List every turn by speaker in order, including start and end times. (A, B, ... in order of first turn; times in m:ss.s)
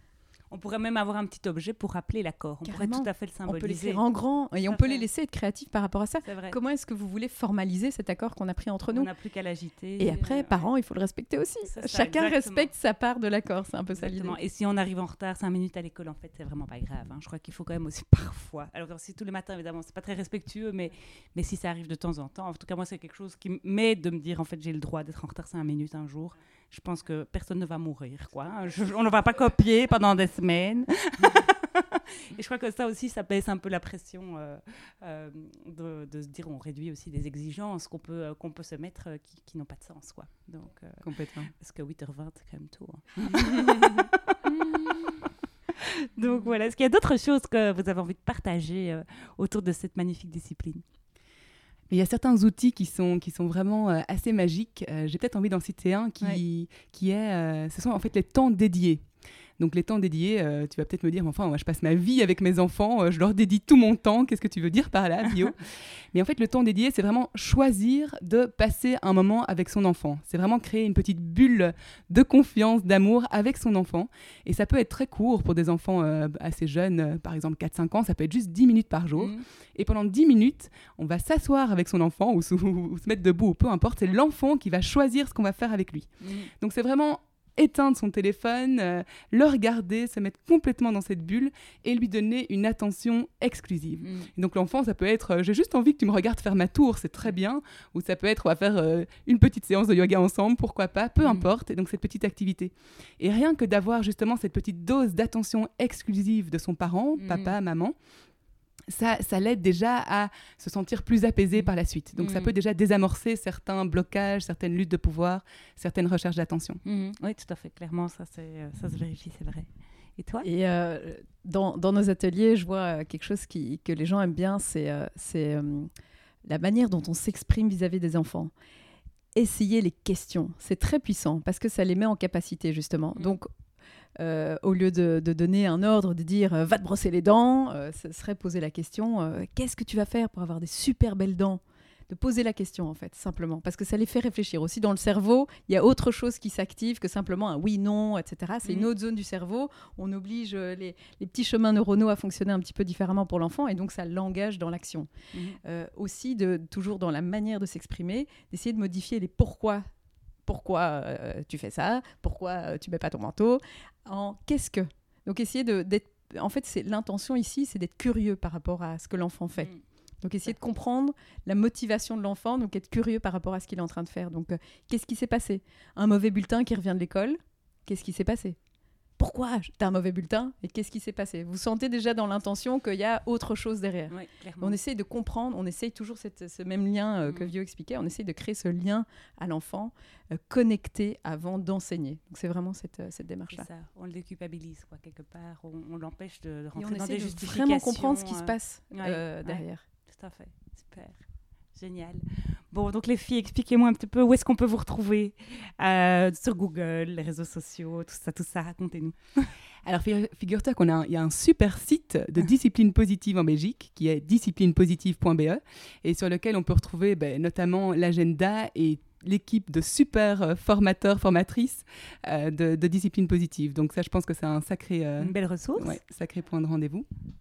0:00.5-0:04.0 A
0:02.6-0:09.1 B
0:04.6-0:05.1 A
0:06.2-0:06.6 A
0:08.9-0:10.7 A
0:10.0-0:14.4 B
0:11.7-0:12.7 A
0:13.9-0:50.8 A
0:41.0-0:41.5 C
0:51.9-0:59.0 C
0:59.6-1:26.1 C
1:05.3-1:05.5 A
1:19.2-1:19.4 A
1:26.2-1:26.5 A
1:26.6-1:47.9 C
1:34.0-1:34.3 A
1:47.2-1:47.6 A
1:48.9-1:56.8 C
1:51.5-1:52.5 A
1:56.8-2:00.5 A
2:00.4-2:05.9 B
2:06.4-2:08.5 B
2:09.4-2:13.5 B
2:14.2-2:35.1 B
2:28.6-2:28.9 A
2:35.3-2:35.6 A
2:35.6-2:39.8 B
2:40.4-2:49.7 B
2:50.2-2:58.6 B
2:59.2-3:13.6 B
3:04.1-3:04.8 A
3:07.2-3:07.5 A
3:13.5-3:21.2 A
3:16.8-3:19.8 B
3:21.7-3:29.5 A
3:29.8-3:47.0 C
3:45.2-3:46.0 A